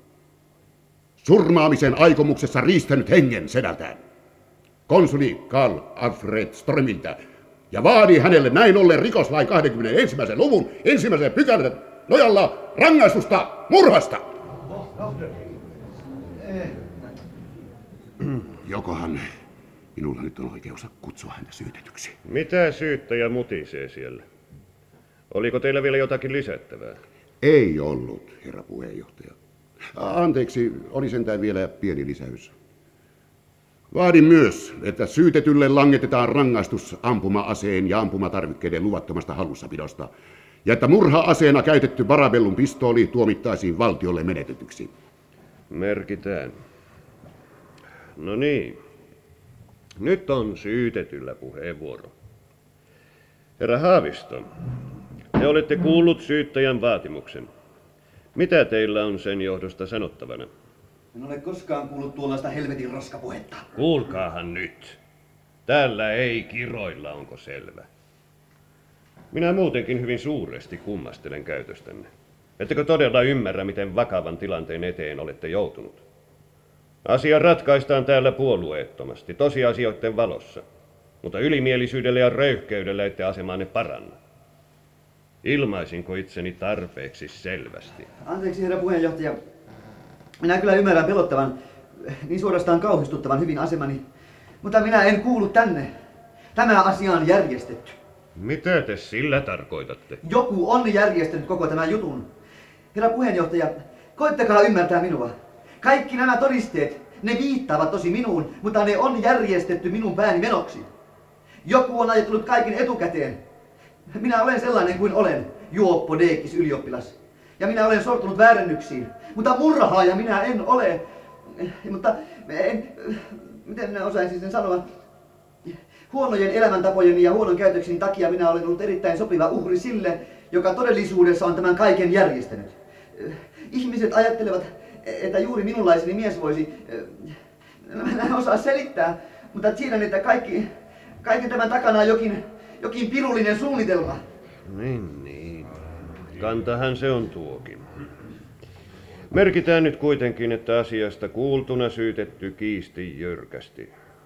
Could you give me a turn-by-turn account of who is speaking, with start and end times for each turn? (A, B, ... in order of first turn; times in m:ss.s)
0:01.2-0:04.0 A
0:04.9-0:07.2 A
0:07.7-0:14.3 A
0:14.7-0:15.6 B
0:16.4-0:16.8 B
0:18.6-0:19.2 A
0:19.9-0:22.2 A
0:22.2-0:24.2 C
0:25.3-0:27.0 C
0:27.4-0:29.3 A
0:29.9-0:32.5 A
0:33.9-0:40.1 A
0:40.6-0:44.9 A
0:45.7-0:46.6 C
0:48.2-0:48.8 C
0:50.0-0:52.1 C
0:53.6-0:54.5 C
0:55.3-0:57.5 C
0:58.3-1:00.5 C
1:01.1-1:03.6 B
1:03.8-1:05.0 C
1:05.6-1:07.8 C
1:09.3-1:12.1 C
1:12.6-1:16.0 C
1:17.0-1:20.6 C
1:21.2-1:24.2 C
1:25.4-1:28.1 C
1:28.2-1:29.4 B
1:30.4-1:34.0 B
1:34.6-1:35.9 B
1:36.5-1:38.0 B
1:38.4-1:40.2 C
1:40.2-1:42.3 B
1:42.9-1:50.9 B
1:51.6-1:53.4 B
1:54.1-2:04.8 B
2:05.6-2:17.3 B
2:17.8-2:20.7 B
2:21.2-2:24.2 B
2:24.7-2:25.7 C
2:26.3-2:27.8 C
2:29.3-2:33.9 C